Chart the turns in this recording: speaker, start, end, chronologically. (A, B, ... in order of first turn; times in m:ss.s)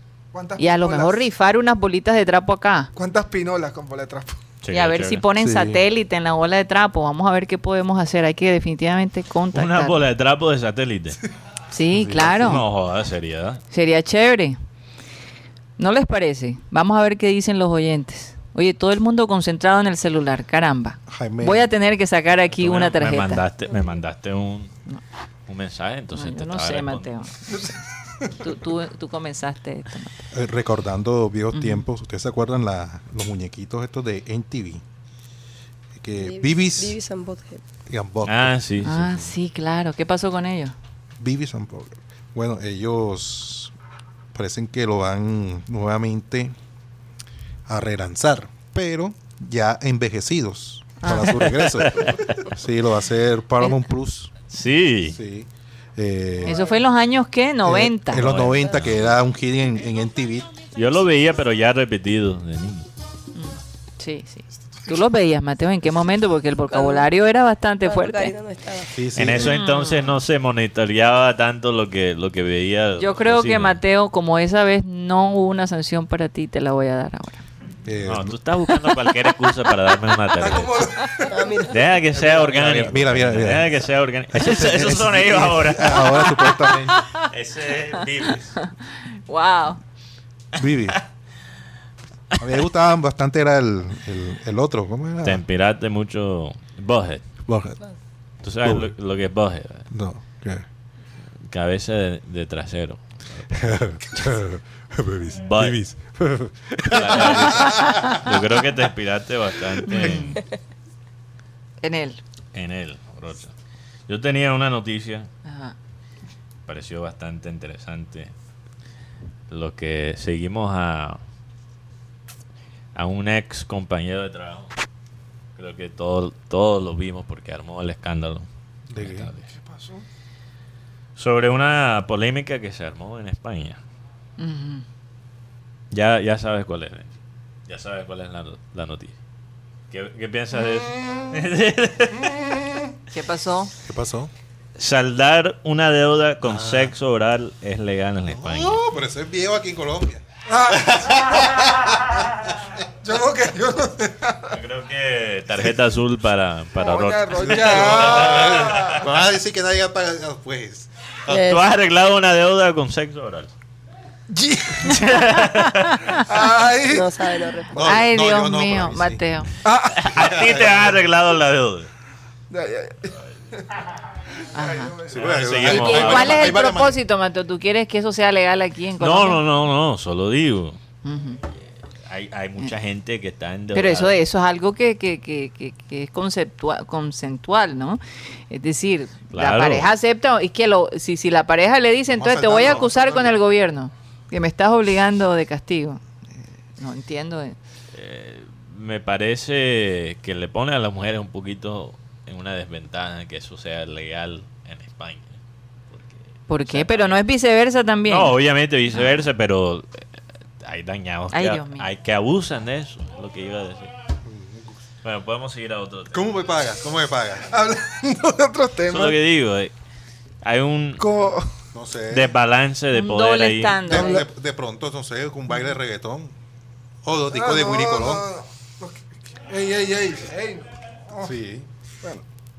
0:00.3-0:01.2 A
0:00.6-0:02.9 B
0:03.0-0:04.4 A
0:04.6-0:05.2 C
0:04.7-0:10.0 B
0:05.4-0:05.8 D
0:09.5-0:11.2 C
0:11.7-0:12.6 B
0:11.9-0:12.7 D
0:12.4-0:13.6 C
0:13.7-0:14.6 B
0:15.8-0:23.4 B
0:21.1-0:21.7 D
0:22.6-0:24.8 C
0:25.5-0:27.1 C
0:26.2-0:30.2 B
0:30.3-0:34.8 D
0:31.5-0:31.8 B
0:36.0-0:37.0 D
0:36.2-0:37.6 E
0:37.9-0:38.6 D
0:38.3-0:39.2 C
0:38.8-0:40.8 B
0:41.2-0:43.7 D
0:44.3-0:46.5 D
0:47.7-0:54.5 D
0:51.0-0:51.5 B
0:51.8-0:52.4 C
0:54.5-0:55.2 C
0:55.1-0:56.6 D
0:56.4-0:58.3 B
0:57.6-1:00.6 D
0:58.1-0:59.1 C
1:00.8-1:02.9 C
1:03.3-1:08.4 B
1:06.7-1:07.1 E
1:07.8-1:09.0 E
1:08.9-1:09.6 D
1:09.2-1:13.8 C
1:09.4-1:10.2 B
1:13.0-1:17.4 B
1:17.8-1:18.4 D
1:18.0-1:20.9 C
1:20.4-1:21.5 A
1:21.3-1:21.8 E
1:21.7-1:26.3 C
1:22.1-1:23.8 D
1:24.3-1:27.1 D
1:26.2-1:27.3 B
1:27.2-1:28.6 C
1:28.6-1:29.8 B
1:30.6-1:31.0 D
1:32.4-1:35.4 D
1:35.2-1:37.3 C
1:37.4-1:37.8 D
1:38.4-1:39.9 C
1:38.6-1:38.9 D
1:39.9-1:40.6 D
1:41.5-1:44.0 C
1:43.5-1:48.4 D
1:45.4-1:45.8 C
1:46.9-1:50.4 C
1:49.9-1:50.4 B
1:51.8-1:52.2 B
1:52.5-1:53.5 C
1:54.1-1:55.3 C
1:55.4-1:55.8 B
1:56.7-1:58.3 C
1:59.5-2:01.2 C
2:03.0-2:04.7 C
2:05.6-2:09.4 C
2:08.9-2:09.3 D
2:09.5-2:10.0 A
2:11.2-2:13.8 C
2:14.4-2:14.8 B
2:15.9-2:17.2 C
2:17.7-2:19.2 C
2:19.9-2:22.4 C
2:23.1-2:23.7 B
2:23.8-2:24.3 D
2:24.8-2:28.8 C
2:26.4-2:26.9 D
2:28.3-2:32.7 D
2:30.5-2:31.3 A
2:33.0-2:34.6 A
2:34.5-2:39.1 C
2:36.8-2:39.0 A
2:37.4-2:40.9 D
2:41.3-2:41.7 E
2:41.3-2:43.5 C
2:44.3-2:45.4 A
2:44.9-2:46.2 C
2:46.1-2:47.2 A
2:46.9-2:47.8 E
2:47.7-2:49.3 D
2:47.8-2:49.5 B
2:49.6-2:50.1 A
2:50.0-2:51.9 C
2:50.1-2:51.0 D
2:52.5-2:53.6 A
2:54.5-2:55.0 B
2:54.6-2:55.1 A
2:55.1-2:57.0 D
2:55.2-2:56.6 C
2:55.6-2:59.4 B
2:59.0-3:00.8 C
3:01.0-3:01.4 B
3:02.0-3:04.2 C
3:03.7-3:16.0 B
3:09.3-3:09.9 C
3:12.1-3:13.3 D
3:16.8-3:17.6 B
3:17.9-3:25.4 C
3:25.9-3:27.2 C
3:26.5-3:28.3 B
3:28.0-3:30.0 C
3:28.9-3:29.3 B
3:30.6-3:33.9 C
3:31.3-3:31.9 B
3:34.3-3:34.8 D
3:35.0-3:36.2 C
3:36.1-3:37.7 D
3:37.6-3:39.2 A
3:38.9-3:39.7 C
3:40.4-3:41.1 C
3:41.0-3:41.5 A
3:41.7-3:42.3 D
3:42.1-3:44.0 C
3:42.9-3:44.3 B
3:43.8-3:46.4 D
3:47.0-3:48.3 D
3:47.3-3:51.3 A
3:51.2-3:51.7 D